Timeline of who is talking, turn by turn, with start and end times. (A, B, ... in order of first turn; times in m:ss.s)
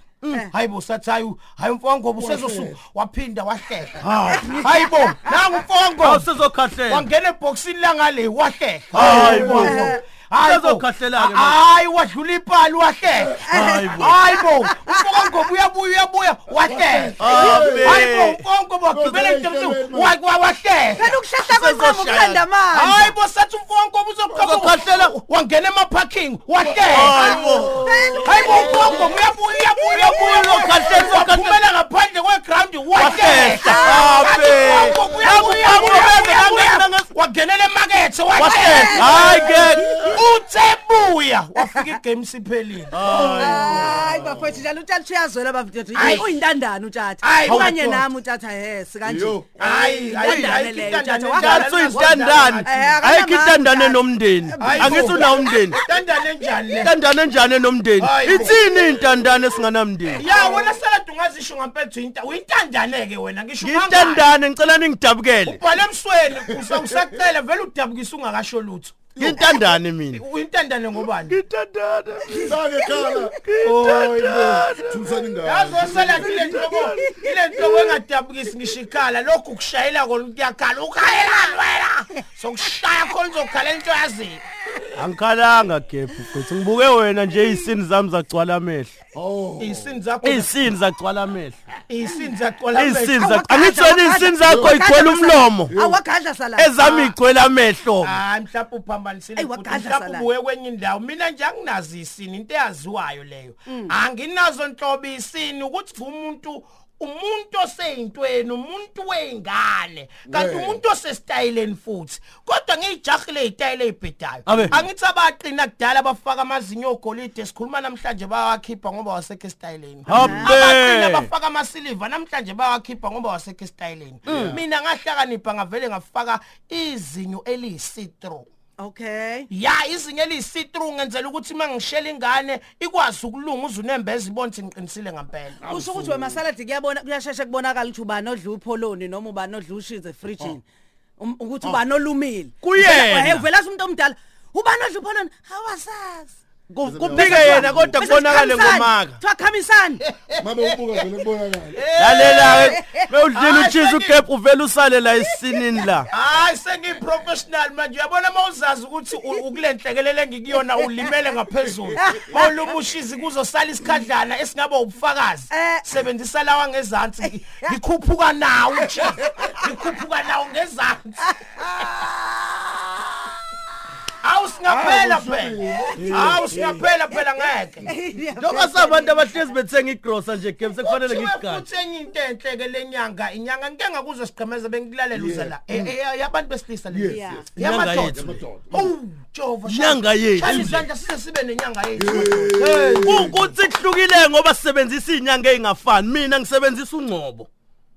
0:00.5-0:06.3 A
0:02.1-0:02.8 B
0:04.0-0:04.6 C
0:04.3-0:05.4 D
0:06.0-0:07.1 C
0:06.9-0:13.4 A
0:08.9-0:09.8 B
0:08.9-0:09.8 C
0:09.2-0:10.0 D
0:10.4-0:11.6 C
0:13.4-0:15.4 D
0:13.5-0:14.1 C
0:13.9-0:21.1 A
0:16.6-0:18.0 B
0:17.2-0:18.4 C
0:18.9-0:20.2 B
0:20.9-0:23.1 D
0:21.4-0:22.4 C
0:22.7-0:27.3 A
0:24.3-0:25.1 C
0:26.6-0:29.1 B
0:26.9-0:27.8 C
0:27.1-0:31.0 D
0:28.1-0:43.4 A
0:29.9-0:31.6 C
0:33.0-0:37.1 C
0:33.0-0:34.5 D
0:34.6-0:35.8 B
0:38.3-0:39.8 C
0:38.5-0:40.2 D
0:39.4-0:40.2 B
0:41.6-0:41.9 D
0:42.9-0:44.1 C
0:43.0-0:44.6 B
0:43.3-0:52.0 D
0:45.9-0:46.3 A
0:47.2-0:48.1 A
0:47.5-0:47.7 C
0:49.0-0:49.5 B
0:49.6-0:52.9 A
0:50.2-0:50.7 C
0:51.4-0:55.8 C
0:52.6-0:56.0 D
0:54.6-0:56.9 A
0:56.8-1:00.2 C
0:58.0-0:58.7 A
1:00.2-1:04.3 A
1:00.3-1:00.6 D
1:03.6-1:05.6 C
1:05.4-1:09.0 A
1:06.5-1:07.2 B
1:09.2-1:09.7 B
1:09.2-1:10.2 C
1:10.1-1:11.4 A
1:11.3-1:12.6 C
1:12.3-1:13.4 D
1:12.4-1:13.3 B
1:13.4-1:15.2 C
1:13.6-1:14.4 A
1:14.2-1:16.5 B
1:15.4-1:24.4 A
1:15.9-1:17.0 C
1:16.4-1:17.8 D
1:24.9-1:28.9 C
1:29.1-1:30.0 B
1:29.6-1:30.5 A
1:30.2-1:31.6 C
1:31.9-1:33.2 A
1:32.7-1:35.7 C
1:33.2-1:36.8 D
1:34.5-1:34.8 B
1:35.7-1:36.0 B
1:36.6-1:38.2 C
1:36.8-1:37.2 A
1:38.0-2:08.5 A
1:39.4-1:40.3 D
1:43.7-1:43.9 D
1:50.3-1:50.8 B
1:54.4-1:54.8 C
2:00.1-2:01.3 C
2:00.1-2:00.5 D
2:04.2-2:04.6 B
2:04.3-2:04.6 C
2:08.8-2:09.5 D
2:09.5-2:15.6 A
2:15.6-2:16.4 B
2:15.6-2:20.6 D
2:21.2-2:26.3 D
2:22.6-2:23.5 C
2:26.7-2:29.2 C
2:26.8-2:28.0 B
2:27.1-2:30.0 D
2:30.1-2:30.8 A
2:30.4-2:31.8 B
2:31.7-2:32.8 A
2:32.0-2:36.1 C
2:32.5-2:33.0 D
2:33.3-2:34.2 A
2:36.1-2:51.7 A
2:42.1-2:42.5 D
2:45.5-2:45.8 D
2:47.2-2:47.7 D
2:49.4-2:49.7 D
2:51.3-2:53.3 D
2:54.2-2:57.9 A
2:54.6-2:56.8 B
2:55.9-2:59.5 D
2:56.0-2:56.6 C
2:58.4-3:01.6 C
3:00.8-3:13.6 A
3:05.1-3:05.6 B
3:06.9-3:07.4 B
3:07.1-3:07.5 D
3:07.6-3:08.4 C
3:08.1-3:08.9 B
3:09.6-3:10.8 C
3:10.4-3:10.8 B
3:12.0-3:13.4 B
3:13.0-3:17.5 C